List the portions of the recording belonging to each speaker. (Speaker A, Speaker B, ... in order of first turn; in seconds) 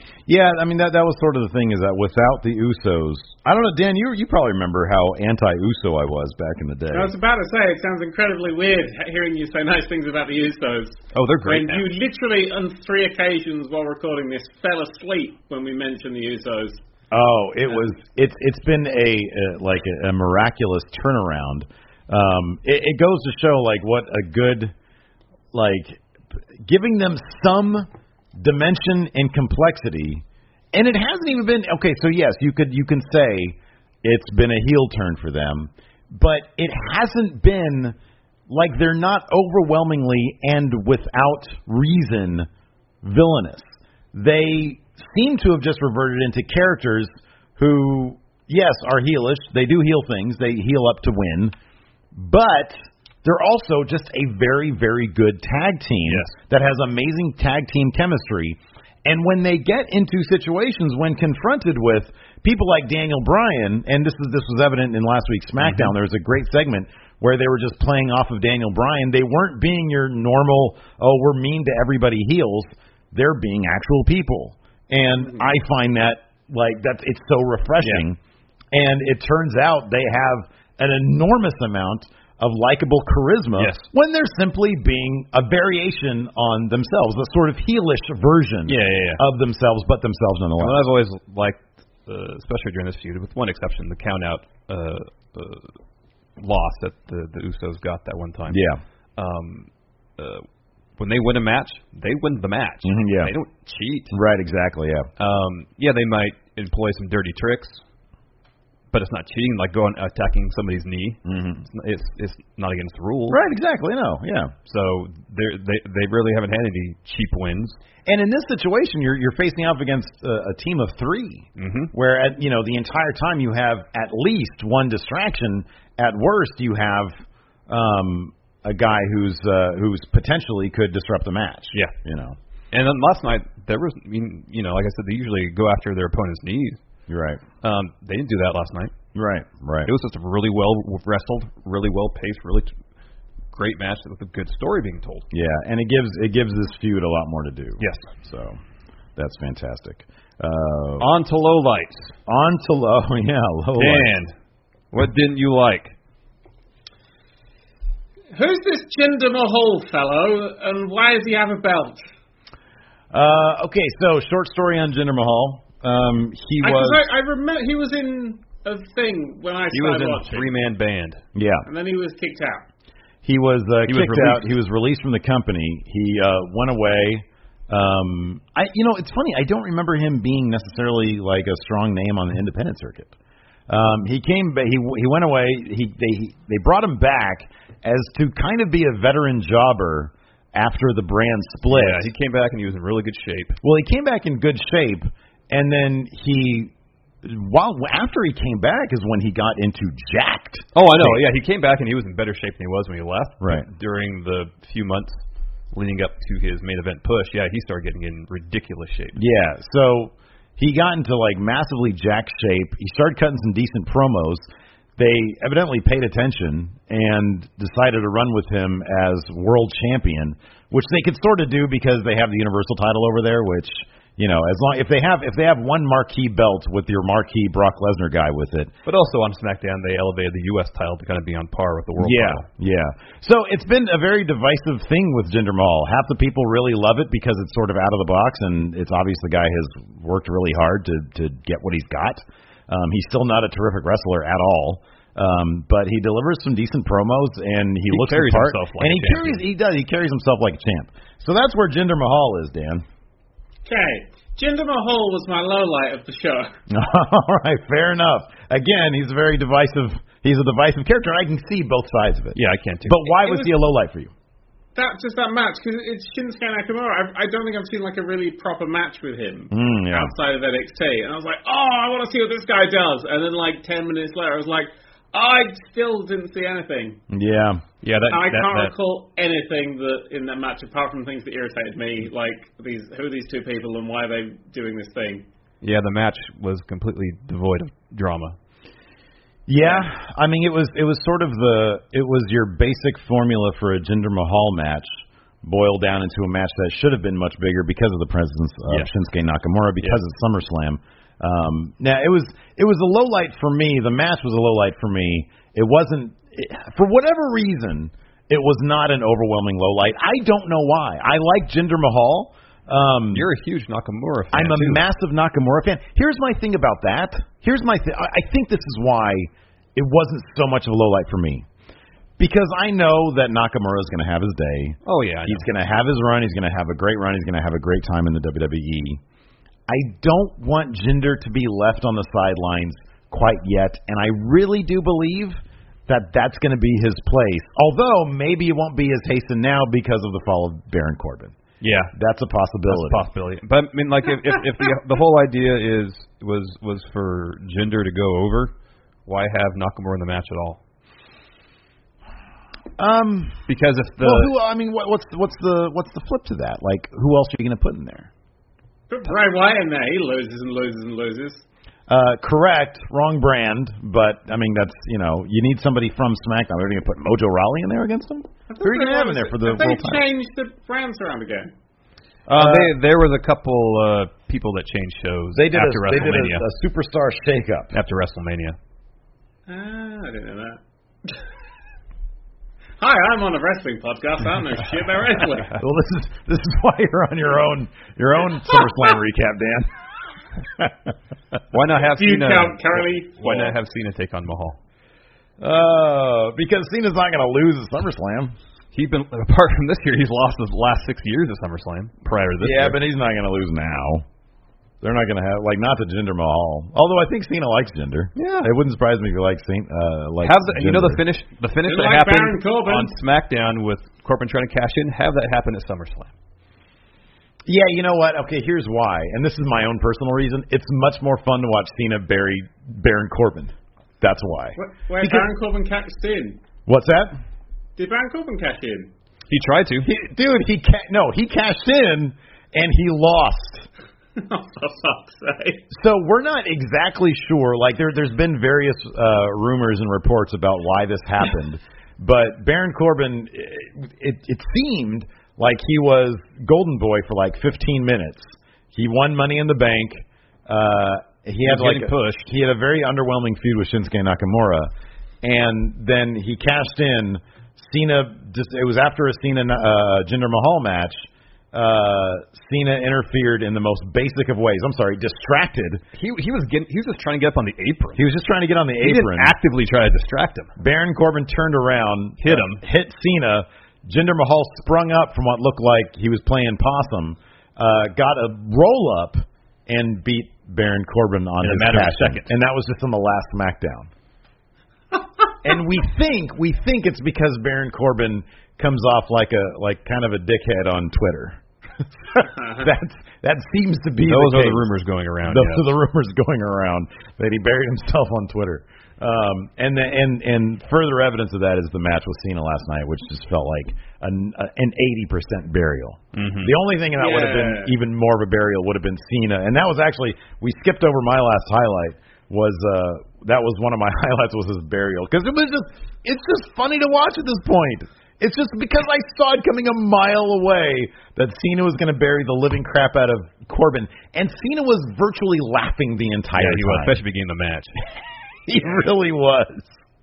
Speaker A: 0.3-7.1, 17.1-24.7, 25.5-26.0, 26.6-27.9, 28.4-38.0, 38.5-42.5, 43.0-51.5, 52.1-78.2, 78.7-90.9, 98.5-98.8, 102.8-103.3, 104.1-105.1, 111.3-111.6, 113.3-114.5, 118.1-127.1, 127.7-132.4, 137.1-137.4, 139.2-139.9, 145.3-148.6, 149.2-151.1, 152.3-154.1, 163.1-167.0, 171.3-171.7, 173.2-183.1, 183.7-192.1, 193.6-196.7, 197.2-201.2, 203.4-203.7, 209.2-214.4, 215.0-228.7, 232.0-252.8, 256.7-264.1, 269.5-270.1, 277.1-277.6, 289.5-294.9, 295.4-313.3, 314.3-321.5, 322.2-329.0, 329.7-341.4, 341.9-343.1, 352.8-353.4, 354.0-358.1, 361.9-370.0, 372.3-372.7, 375.3-377.7, 385.6-389.7, 390.4-390.9, 395.4-398.3, 402.4-404.1, 404.8-411.0, 417.5-425.3, 426.7-427.2, 429.8-433.7, 435.7-454.7, 455.2-465.8, 468.0-469.4, 470.6-483.9, 485.4-494.7, 495.3-527.0, 528.5-529.8
Speaker B: 6.9-16.8, 158.3-162.0, 166.6-170.5, 171.7-172.7, 253.7-256.5, 264.8-277.0, 278.1-285.3, 358.9-361.4, 368.5-371.5, 379.5-381.1, 382.8-385.6, 391.9-393.6, 411.7-412.9, 424.6-426.4, 427.8-428.9, 434.2-435.6, 506.9-507.7
Speaker C: 11.1-11.9, 56.1-56.3, 65.6-65.9, 83.6-83.9, 88.7-89.2, 90.6-95.7, 96.4-98.6, 99.2-100.5, 101.0-104.1, 105.2-107.8, 108.9-113.4, 114.7-117.8, 121.6-121.9, 132.7-136.8, 137.6-138.9, 139.9-142.7, 143.5-145.3, 147.8-148.1, 151.0-152.1, 153.8-154.3, 154.9-155.9, 169.7-171.2, 173.9-174.4, 191.7-193.6, 200.8-209.2, 228.9-232.4, 247.9-249.4, 262.4-263.2, 277.8-278.7, 285.6-288.4, 313.1-314.8, 324.9-325.5, 341.6-341.9, 342.7-348.5, 349.1-350.6, 353.5-354.3, 372.3-376.4, 377.7-378.6, 391.5-394.6, 398.7-402.8, 408.2-408.5, 410.2-416.1, 429.3-429.9, 451.4-452.3, 465.9-468.0, 468.8-470.5, 472.2-472.6, 481.4-482.3, 494.0-495.7, 506.1-506.5, 526.4-527.7